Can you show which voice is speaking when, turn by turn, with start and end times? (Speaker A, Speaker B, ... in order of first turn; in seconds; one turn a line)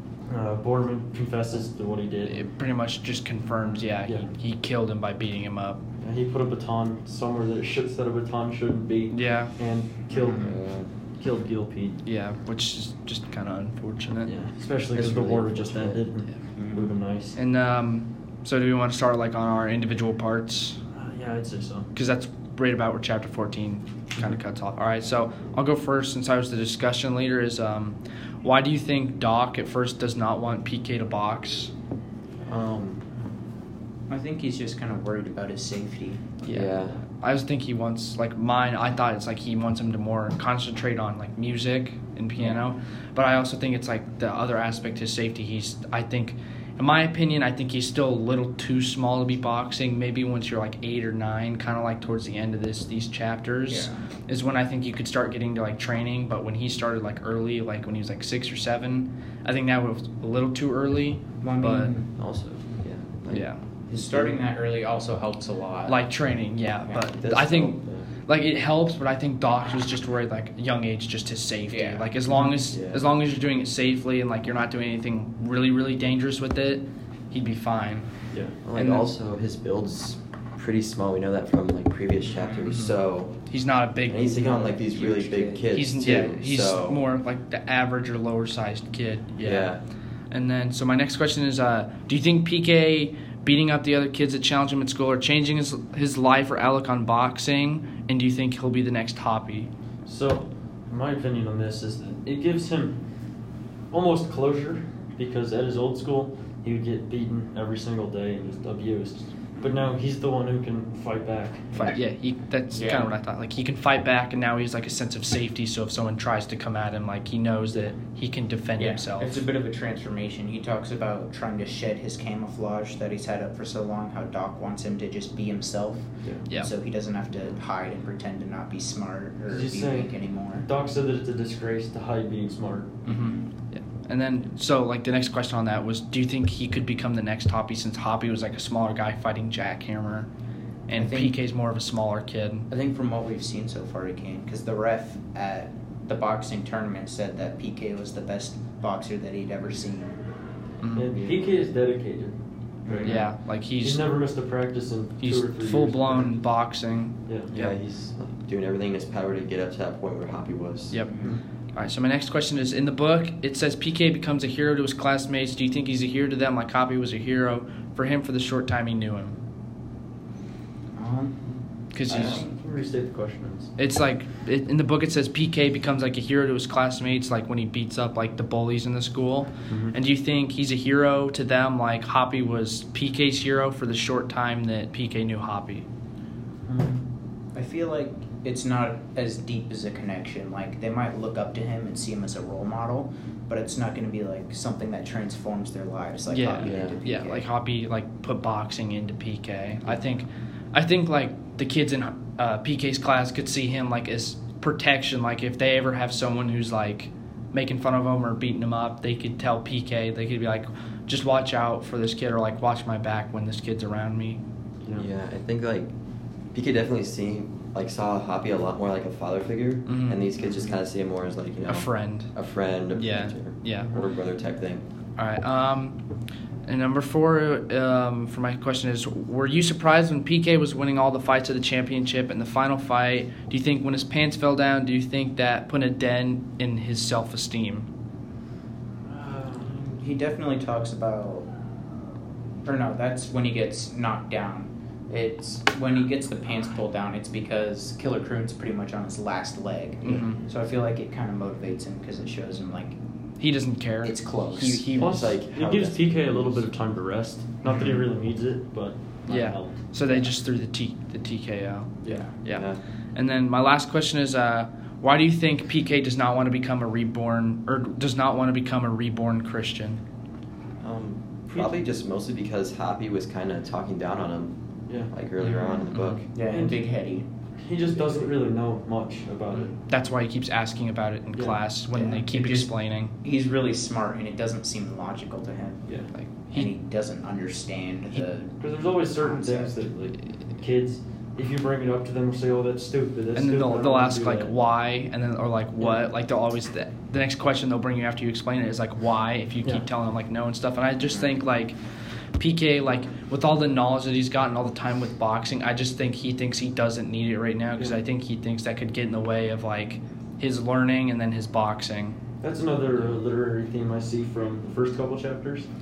Speaker A: 0.3-2.4
Speaker B: 2.3-5.8
Speaker A: 6.0-10.6
Speaker B: 9.1-9.6
Speaker C: 10.1-10.6
Speaker D: 10.4-10.9
Speaker A: 11.2-12.0
Speaker B: 12.0-14.3
Speaker A: 14.3-17.4
Speaker D: 14.9-16.0
Speaker C: 16.6-16.9
Speaker B: 17.4-20.8
Speaker A: 20.9-21.9
Speaker B: 21.9-31.7
Speaker D: 32.4-33.0
Speaker C: 34.1-36.3
Speaker B: 36.4-62.0
Speaker D: 36.5-37.0
Speaker C: 53.7-54.0
Speaker C: 61.4-62.1
Speaker D: 62.2-64.4
Speaker B: 63.3-63.6
Speaker C: 63.9-66.0
Speaker B: 65.9-78.1
Speaker D: 67.1-68.1
Speaker C: 71.7-72.5
Speaker D: 72.7-73.0
Speaker A: 78.3-78.6
Speaker D: 78.7-83.4
Speaker B: 78.7-79.1
Speaker B: 82.7-82.9
Speaker B: 83.5-89.8
Speaker D: 84.1-87.0
Speaker D: 89.4-89.8
Speaker B: 90.3-99.7
Speaker A: 100.1-103.0
Speaker A: 103.9-111.9
Speaker C: 109.6-109.8
Speaker B: 111.7-119.4
Speaker C: 112.7-113.1
Speaker C: 118.8-130.7
Speaker A: 129.5-133.0
Speaker C: 133.1-133.5
Speaker B: 133.1-140.3
Speaker B: 140.9-142.7
Speaker C: 140.9-141.4
Speaker C: 142.7-150.2
Speaker B: 150.8-151.1
Speaker A: 151.0-152.3
Speaker D: 151.1-151.5
Speaker C: 152.8-153.2
Speaker A: 152.9-156.4
Speaker B: 153.0-154.0
Speaker B: 155.2-157.8
Speaker D: 157.5-161.0
Speaker B: 160.9-169.4
Speaker C: 161.1-161.4
Speaker C: 170.9-172.6
Speaker B: 171.9-172.4
Speaker A: 172.1-173.7
Speaker B: 173.8-185.9
Speaker A: 179.7-179.9
Speaker C: 186.7-187.0
Speaker C: 187.5-197.5
Speaker B: 196.3-214.4
Speaker D: 196.6-197.0
Speaker D: 214.9-215.9
Speaker D: 216.5-224.8
Speaker B: 219.9-220.3
Speaker C: 220.4-220.8
Speaker B: 221.7-222.3
Speaker B: 222.9-223.9
Speaker B: 225.2-226.0
Speaker B: 226.7-237.9
Speaker A: 239.1-239.7
Speaker C: 239.6-241.5
Speaker C: 242.6-253.0
Speaker B: 250.0-250.4
Speaker B: 253.4-255.3
Speaker C: 254.0-254.9
Speaker D: 254.8-256.7
Speaker A: 255.0-260.2
Speaker C: 257.7-258.0
Speaker B: 259.3-270.0
Speaker C: 262.1-262.3
Speaker D: 262.5-262.8
Speaker D: 270.8-276.3
Speaker C: 275.6-277.3
Speaker B: 275.9-276.2
Speaker A: 276.5-276.9
Speaker A: 277.6-279.7
Speaker C: 277.8-278.3
Speaker B: 279.6-283.1
Speaker A: 281.3-281.6
Speaker C: 281.9-285.9
Speaker B: 286.1-286.7
Speaker C: 286.5-289.8
Speaker A: 288.6-294.5
Speaker B: 293.4-301.8
Speaker C: 301.1-301.4
Speaker B: 302.4-312.2
Speaker A: 312.4-315.7